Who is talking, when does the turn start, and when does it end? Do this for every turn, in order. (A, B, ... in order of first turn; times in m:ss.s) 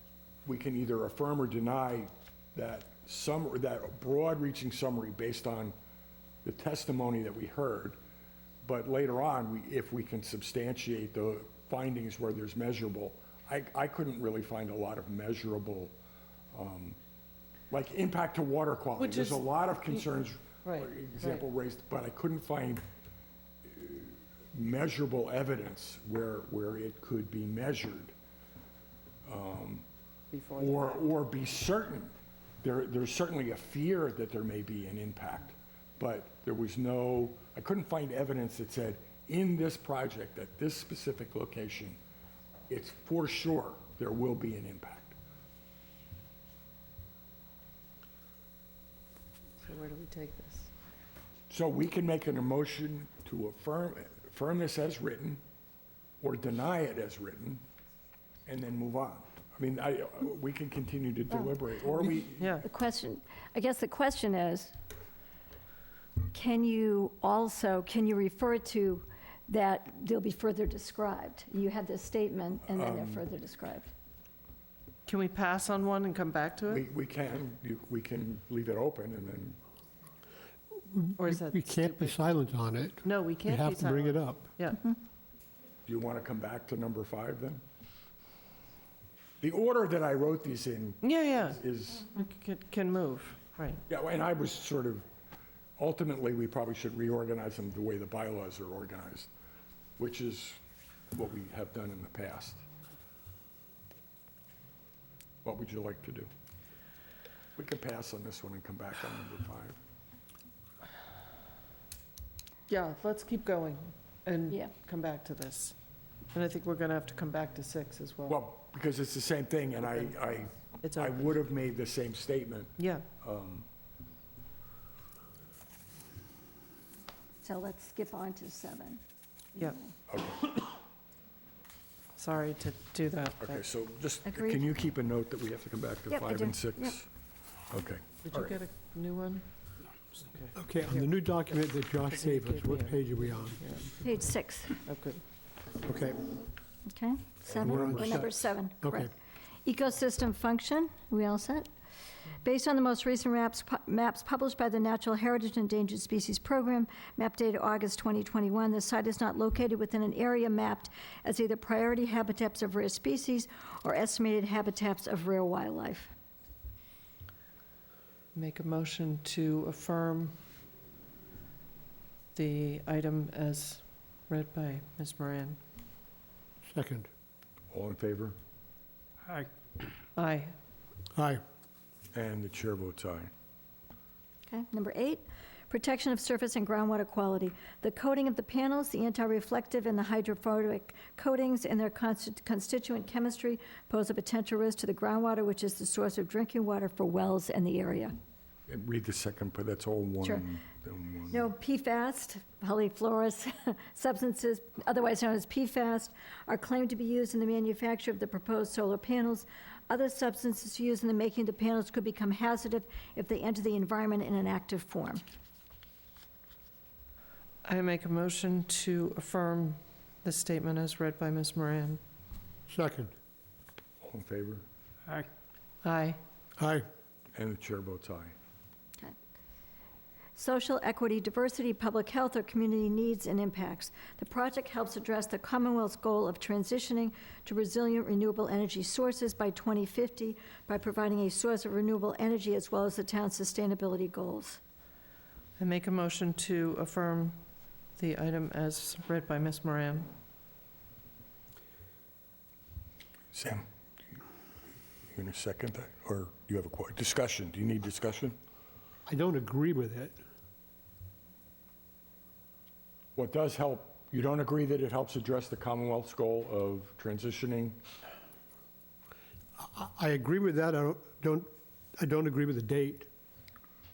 0:00.4-0:05.7 A
0:06.4-0:08.0 A
0:08.6-0:15.9 A
0:16.5-0:17.0 A
0:17.7-0:22.8 A
0:19.0-0:20.0 B
0:20.6-0:21.4 B
0:23.6-0:28.1 A
0:29.2-0:29.8 A
0:30.3-0:31.1 B
0:30.6-0:42.0 A
0:42.7-0:45.1 A
0:49.6-0:50.7 B
0:51.5-0:55.4 A
0:56.2-0:57.6 A
0:58.4-1:02.6 A
1:02.4-1:02.6 B
1:02.6-1:04.7 C
1:06.3-1:13.9 C
1:12.7-1:13.2 A
1:15.0-1:16.8 B
1:16.7-1:19.6 A
1:20.9-1:24.5 D
1:21.2-1:22.2 B
1:23.0-1:24.9 B
1:25.8-1:27.6 A
1:29.4-1:32.1 A
1:31.0-1:31.6 B
1:32.1-1:33.8 B
1:33.9-1:35.0 A
1:35.8-1:39.3 A
1:40.0-1:40.6 A
1:41.1-1:42.6 A
1:45.4-1:46.3 A
1:47.6-1:49.8 A
1:52.7-1:55.8 B
1:56.3-1:58.4 B
1:58.3-2:03.6 A
2:00.8-2:01.3 B
2:02.8-2:03.0 B
2:07.4-2:09.0 C
2:09.5-2:09.9 C
2:10.1-2:10.5 A
2:12.2-2:13.6 B
2:13.4-2:17.1 A
2:14.2-2:14.6 C
2:16.1-2:17.0 C
2:17.7-2:18.5 A
2:18.2-2:19.4 B
2:20.1-2:21.3 B
2:20.5-2:23.7 D
2:22.0-2:24.3 B
2:24.0-2:24.8 C
2:24.8-2:25.2 B
2:25.8-2:26.3 D
2:26.8-2:29.1 C
2:27.6-2:28.3 A
2:27.6-2:28.3 D
2:28.8-2:29.1 D
2:29.6-2:31.7 C
2:32.4-2:46.1 C
2:48.3-2:50.4 B
2:52.3-2:55.6 B
2:56.6-2:57.1 D
2:57.7-2:58.4 A
3:00.2-3:00.5 B
3:01.1-3:01.4 D
3:02.1-3:03.3 A
3:04.5-3:18.1 C
3:18.7-3:21.4 A
3:21.3-3:35.2 C
3:37.6-3:42.0 B
3:42.7-3:43.1 D
3:44.0-3:44.6 A
3:45.8-3:46.2 B
3:46.6-3:46.8 D
3:47.3-3:48.3 A
3:50.4-4:04.6 C
4:05.6-4:07.4 B
4:08.0-4:10.1 B
4:13.3-4:13.6 A
4:15.1-4:18.4 A
4:19.1-4:20.1 D
4:23.2-4:27.8 A
4:29.6-4:33.1 D